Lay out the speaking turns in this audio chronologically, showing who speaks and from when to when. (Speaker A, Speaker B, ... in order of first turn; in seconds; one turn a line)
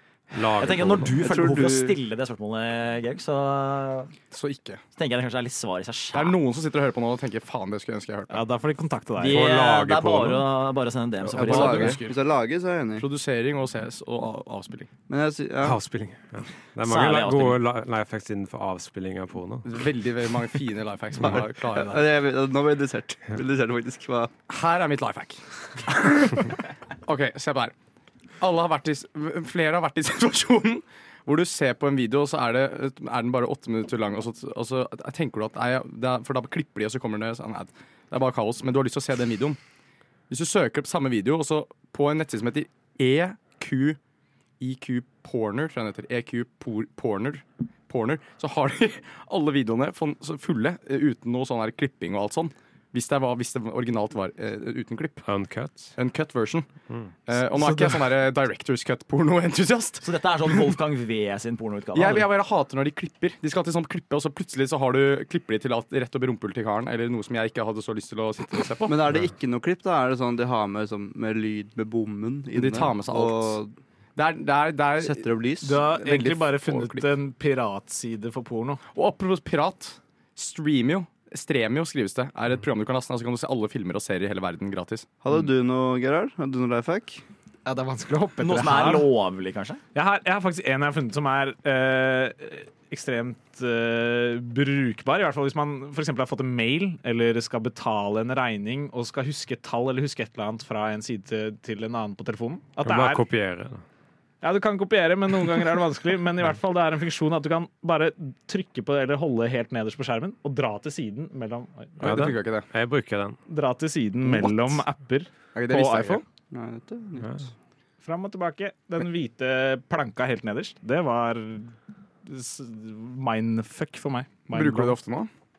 Speaker A: 0.3-1.2
Speaker B: 0.6-4.1
Speaker C: 1.2-2.0
Speaker D: 4.3-4.8
Speaker B: 5.0-6.4
Speaker D: 6.1-8.4
Speaker E: 8.3-9.5
Speaker B: 9.2-12.0
Speaker A: 9.2-10.5
Speaker D: 11.2-12.2
Speaker C: 11.3-13.1
Speaker D: 13.0-14.9
Speaker C: 15.1-15.8
Speaker A: 15.6-19.8
Speaker B: 16.8-17.6
Speaker D: 19.6-22.1
Speaker C: 21.3-24.3
Speaker D: 24.5-27.7
Speaker D: 28.4-39.6
Speaker D: 40.3-44.0
Speaker D: 44.6-55.2
Speaker A: 55.2-56.0
Speaker D: 56.0-56.7
Speaker D: 57.3-60.8
Speaker E: 57.4-58.1
Speaker B: 60.0-62.3
Speaker D: 61.9-69.0
Speaker C: 68.9-73.7
Speaker D: 72.5-73.6
Speaker D: 74.2-77.1
Speaker C: 75.0-75.8
Speaker E: 75.6-78.8
Speaker D: 78.9-85.1
Speaker C: 85.2-87.2
Speaker E: 87.7-89.1
Speaker B: 88.4-89.8
Speaker E: 89.9-103.2
Speaker A: 102.8-103.8
Speaker E: 104.4-112.0
Speaker D: 112.0-112.7
Speaker A: 112.0-113.4
Speaker E: 113.5-116.2
Speaker D: 114.2-114.8
Speaker D: 115.5-116.2
Speaker C: 116.5-117.5
Speaker E: 118.0-121.7
Speaker E: 122.2-125.0
Speaker D: 124.5-125.3